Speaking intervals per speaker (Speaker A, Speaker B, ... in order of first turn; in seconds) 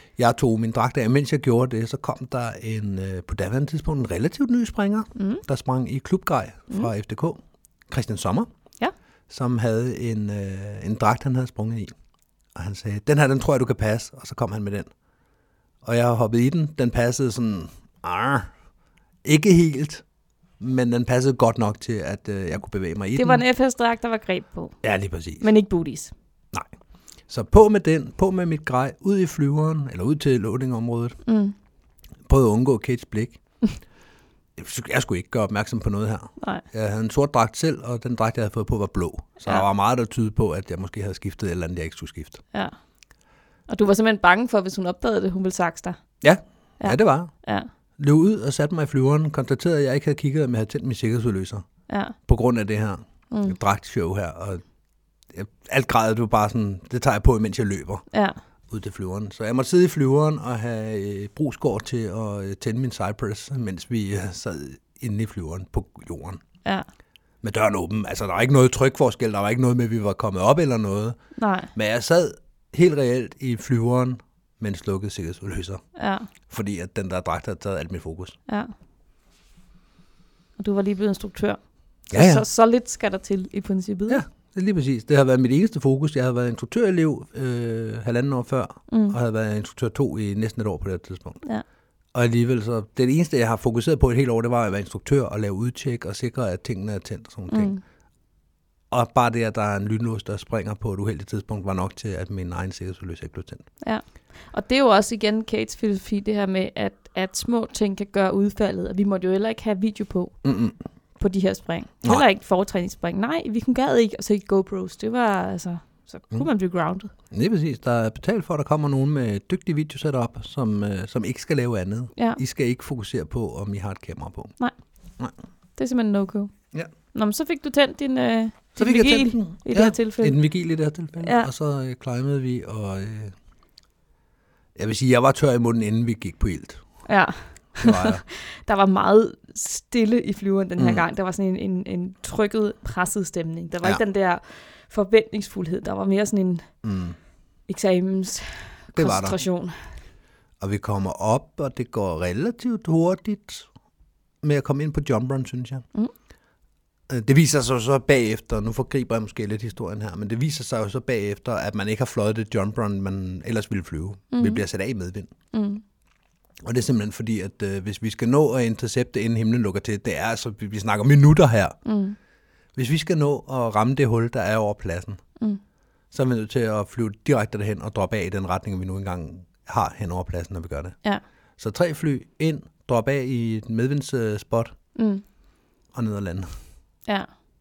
Speaker A: 0.2-8.5, 9.3-11.9, 12.5-14.9, 15.8-18.5, 19.2-20.0, 20.6-23.4, 24.8-25.5, 27.3-31.2, 32.2-33.4, 34.6-42.4, 46.2-47.3, 48.0-51.6, 52.2-54.6, 55.3-58.0, 58.7-66.4, 67.4-71.2, 71.7-75.8, 76.5-78.4, 82.1-82.5, 84.1-91.4, 92.1-97.7, 98.9-103.7, 110.4-110.8, 117.3-124.5, 128.8-133.3, 134.8-136.8, 137.8-138.2, 140.8-141.0, 146.8-147.2, 148.9-149.4, 150.6-153.7, 154.4-155.8, 157.1-165.3, 166.6-171.8, 172.8-175.2, 176.1-180.9, 181.6-184.7, 185.9-186.5
Speaker B: 5.2-5.4, 23.1-24.8, 25.4-26.1, 31.2-31.5, 43.7-46.0, 46.8-47.7, 51.9-52.1, 53.3-53.6, 58.1-58.4, 71.3-71.7, 76.0-76.3, 80.6-84.2, 88.9-89.2, 97.5-97.8, 103.8-110.4, 111.2-117.1, 122.1-122.4, 125.8-126.5, 127.1-130.4, 131.2-131.5, 137.1-146.7, 147.7-149.9, 164.3-164.6, 165.5-165.8, 171.8-172.2, 184.9-185.2